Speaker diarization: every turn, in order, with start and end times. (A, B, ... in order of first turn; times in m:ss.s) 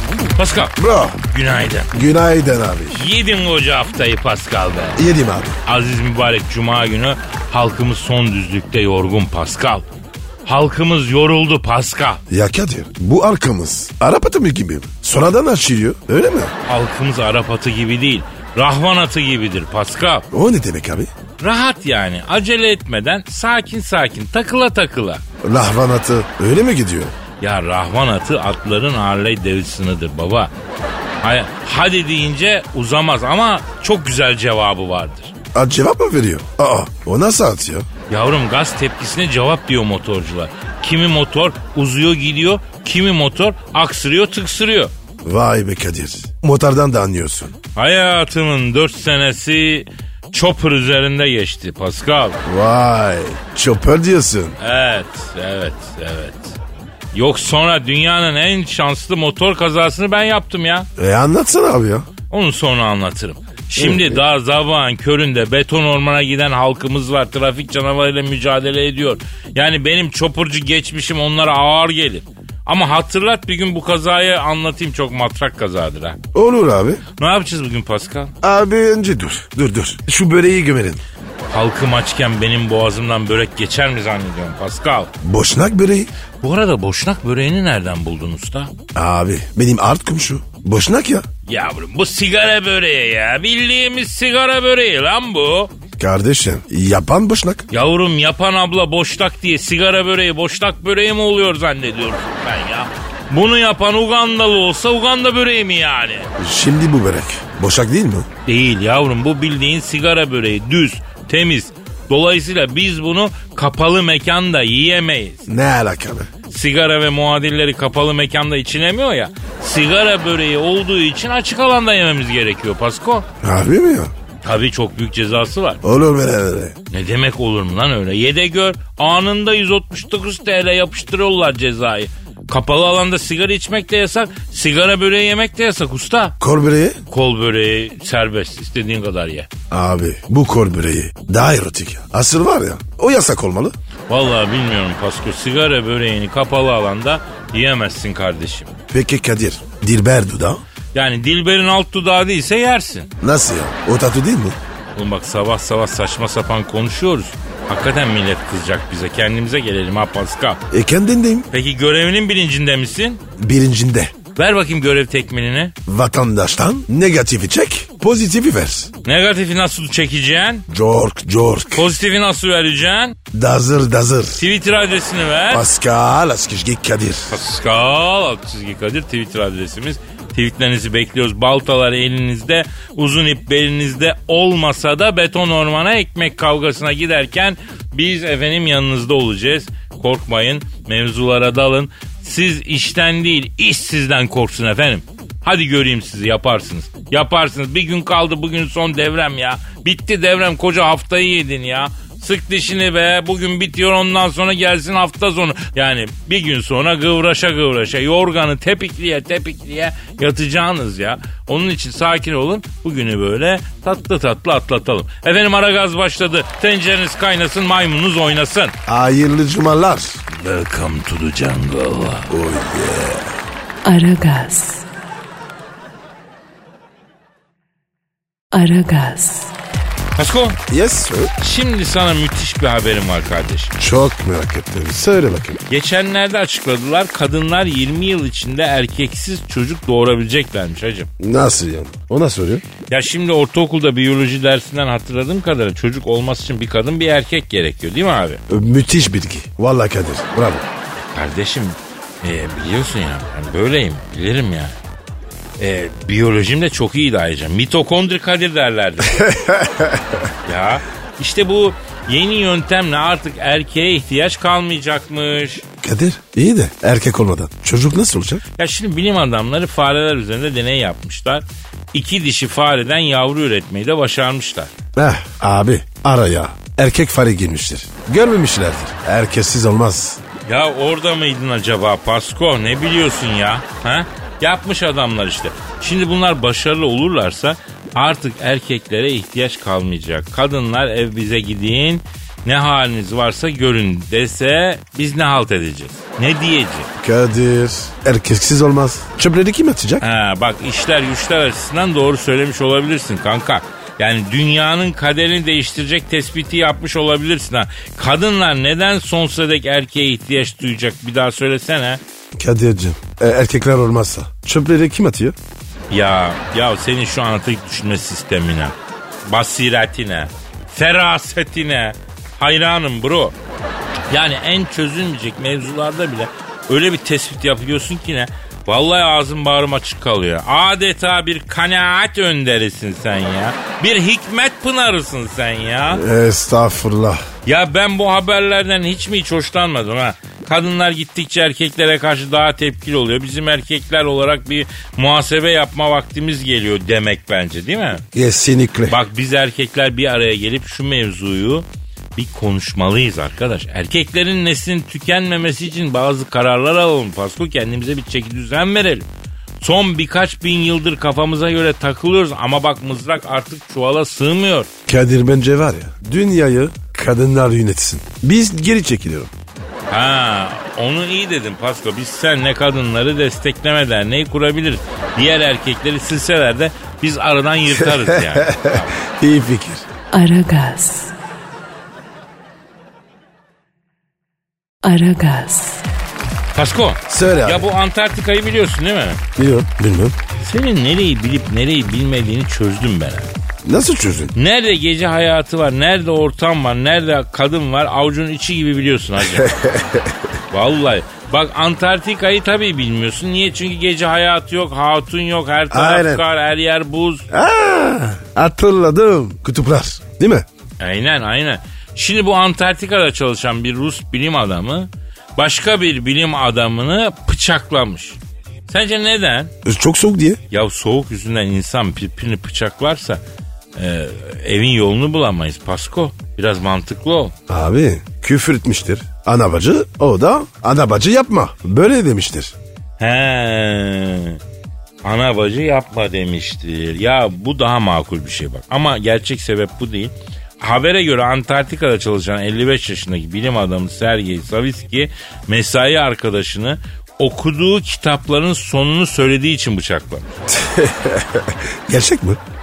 0:00.4-0:00.7 A
0:00.8-0:01.2 B
0:01.3-0:01.9 A
0:01.9-0:03.0 B
0:02.9-0:05.0 A
0:05.0-0:05.6 B
0:05.7-0:09.9 A
0:10.4-0:12.2 A
0:12.3-0:16.5 B
0:16.7-0:20.3 A
0:20.3-0:21.1 B
0:21.4-0:25.2 A
0:25.4-0:27.1 B
0:27.4-0:30.5 A
0:31.2-0:35.3 A
0:35.5-0:37.9 B
0:38.1-0:44.9 A
0:45.2-0:47.6 B
0:47.7-0:52.4 A
0:52.4-0:54.6 B
0:54.6-0:56.6 A
0:57.1-1:00.9 A
1:01.0-1:02.1 B
1:02.3-1:16.2 A
1:03.8-1:04.2 B
1:16.3-1:17.0 B
1:17.2-1:18.3 A
1:18.4-1:21.0 B
1:21.5-1:25.1 A
1:25.2-1:26.1 B
1:26.4-1:28.7 A
1:28.9-1:31.3 B
1:31.5-1:35.7 A
1:36.0-1:37.7 B
1:37.7-1:46.3 A
1:46.4-1:48.3 B
1:48.4-1:55.5 A
1:55.5-1:56.3 B
1:56.5-2:03.3 A
2:03.4-2:04.1 B
2:04.4-2:05.8 A
2:05.8-2:06.8 B
2:06.9-2:16.4 A
2:16.4-2:17.0 B
2:17.1-2:19.5 A
2:19.7-2:23.8 B
2:24.1-2:28.7 A
2:28.9-2:30.6 B
2:30.9-2:33.1 A
2:33.2-2:34.6 B
2:34.9-2:40.6 A
2:40.7-2:41.5 B
2:41.5-2:43.2 A
2:43.4-2:44.1 B
2:44.3-2:45.8 A
2:45.8-2:48.9 B
2:49.0-2:50.6 A
2:50.7-2:51.9 B
2:51.7-2:53.2 A
2:53.3-2:54.4 B
2:54.3-2:55.7 A
2:55.5-2:57.4 B
2:57.3-3:38.7 A
3:38.9-3:40.2 B
3:40.3-3:42.3 A
3:42.3-3:43.3 B
3:43.8-3:44.8 C
3:48.5-3:49.5 C
3:50.2-3:50.6 A
3:50.7-3:51.3 B
3:51.4-3:53.7 A
3:53.8-3:55.6 B
3:55.7-4:01.1 A
4:01.2-4:02.6 B
4:02.9-4:08.4 A
4:08.5-4:10.7 B
4:11.1-4:14.8 A
4:15.6-4:19.2 A
4:19.1-4:20.3 B
4:20.5-4:25.6 A
4:25.8-4:28.4 B
4:28.6-4:34.7 A
4:35.0-4:40.2 B
4:40.5-4:56.9 A
4:57.0-5:00.0 B
5:00.0-5:12.0 A
5:12.4-5:15.4 B
5:15.9-5:23.4 A
5:24.1-5:36.0 A
5:35.9-5:37.2 B
5:37.4-5:48.0 A
5:48.1-5:49.0 B
5:48.9-5:59.0 A
5:59.6-6:04.7 A
6:04.9-6:09.3 B
6:09.9-6:18.9 A
6:17.7-6:19.8 B
6:20.1-6:21.2 C
6:24.8-6:25.8 C
6:26.5-6:29.2 A
6:27.1-6:27.7 B
6:29.4-6:30.2 B
6:30.4-6:33.3 A
6:33.6-6:34.4 B
6:34.4-6:39.5 A
6:39.2-6:40.3 B
6:40.5-6:47.2 A
6:45.7-6:46.2 B
6:47.3-6:50.5 B
6:50.8-6:59.5 A
6:59.6-7:00.4 B
7:00.5-7:03.2 A
7:03.8-7:07.3 A
7:07.5-7:12.6 B
7:13.0-7:14.4 A
7:15.0-7:30.4 A
7:30.5-7:32.4 B